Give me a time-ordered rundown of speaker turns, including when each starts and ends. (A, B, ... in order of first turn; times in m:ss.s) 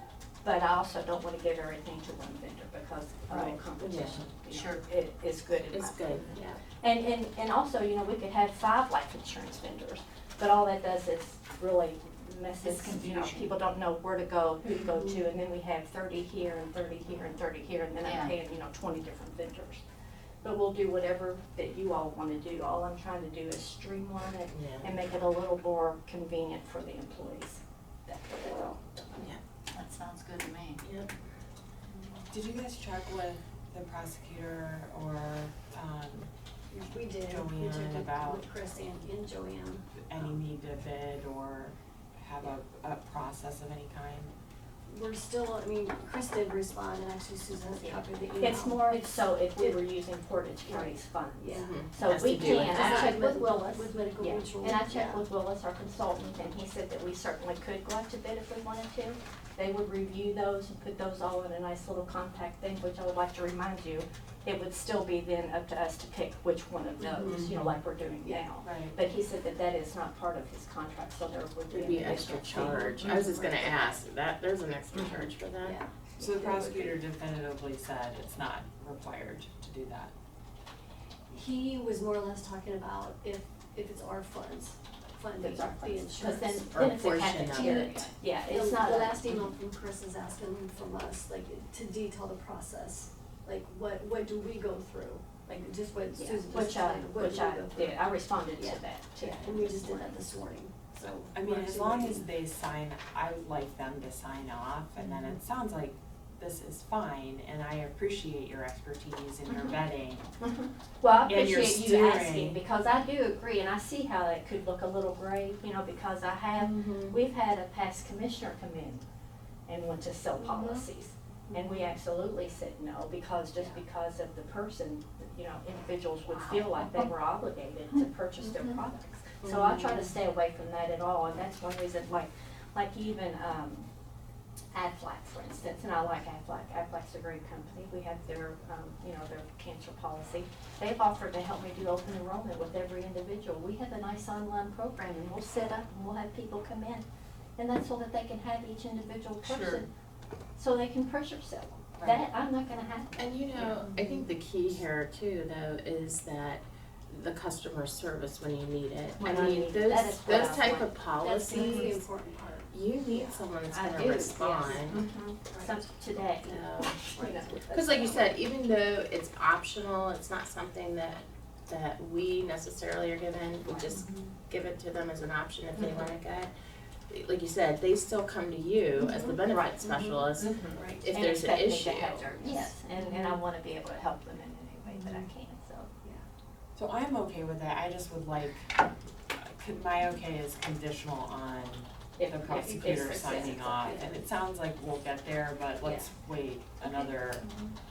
0:00.4-0:19.8 A
0:03.8-0:04.2 B
0:04.5-0:04.8 C
0:05.7-0:06.3 D
0:06.3-0:06.6 E
0:12.6-0:13.6 C
0:18.0-0:18.4 C
0:20.4-0:29.2 A
0:24.5-0:24.9 D
0:29.7-0:30.8 C
0:30.8-0:31.1 D
0:32.3-0:36.3 B
0:36.7-0:39.9 E
0:37.2-0:38.4 B
0:40.0-0:44.4 B
0:44.9-0:49.8 E
0:47.8-1:13.4 A
0:50.7-0:51.8 E
0:51.5-0:53.1 D
0:52.5-0:55.3 E
1:07.0-1:07.6 E
1:07.4-1:07.7 B
1:08.6-1:09.0 B
1:11.7-1:15.8 D
1:12.1-1:14.0 E
1:14.9-1:15.3 A
1:15.6-1:17.0 E
1:16.2-1:20.1 B
1:21.3-1:26.7 E
1:25.4-1:29.3 A
1:26.7-1:28.0 D
1:27.5-1:38.0 E
1:36.1-1:40.2 A
1:38.6-1:42.3 E
1:41.3-1:50.3 B
1:50.4-1:59.0 A
1:51.2-1:52.6 B
1:56.6-1:57.2 E
1:59.7-2:13.9 A
2:00.4-2:00.8 E
2:01.5-2:01.9 E
2:08.4-2:08.8 E
2:09.4-2:09.7 D
2:14.7-2:27.0 A
2:27.6-2:29.9 A
2:29.4-2:29.8 B
2:30.6-2:33.7 A
2:33.2-2:42.0 D
2:39.2-2:41.0 A
2:41.2-2:43.4 E
2:41.5-2:42.0 A
2:42.7-2:45.0 D
2:43.7-2:48.4 A
2:45.5-2:45.8 E
2:46.4-2:47.0 D
2:47.1-2:47.5 E
2:47.7-2:56.5 D
2:53.7-2:53.9 A
2:53.9-2:54.3 E
2:55.8-2:56.1 A
2:57.1-3:02.6 D
2:59.0-3:01.1 E
2:59.5-2:59.8 A
3:00.4-3:05.9 A
3:02.4-3:03.4 E
3:04.9-3:05.3 E
3:06.8-3:08.8 B
3:09.4-3:17.5 B
3:12.2-3:14.0 A
3:13.0-3:14.2 E
3:15.8-3:16.1 A
3:16.8-3:17.8 A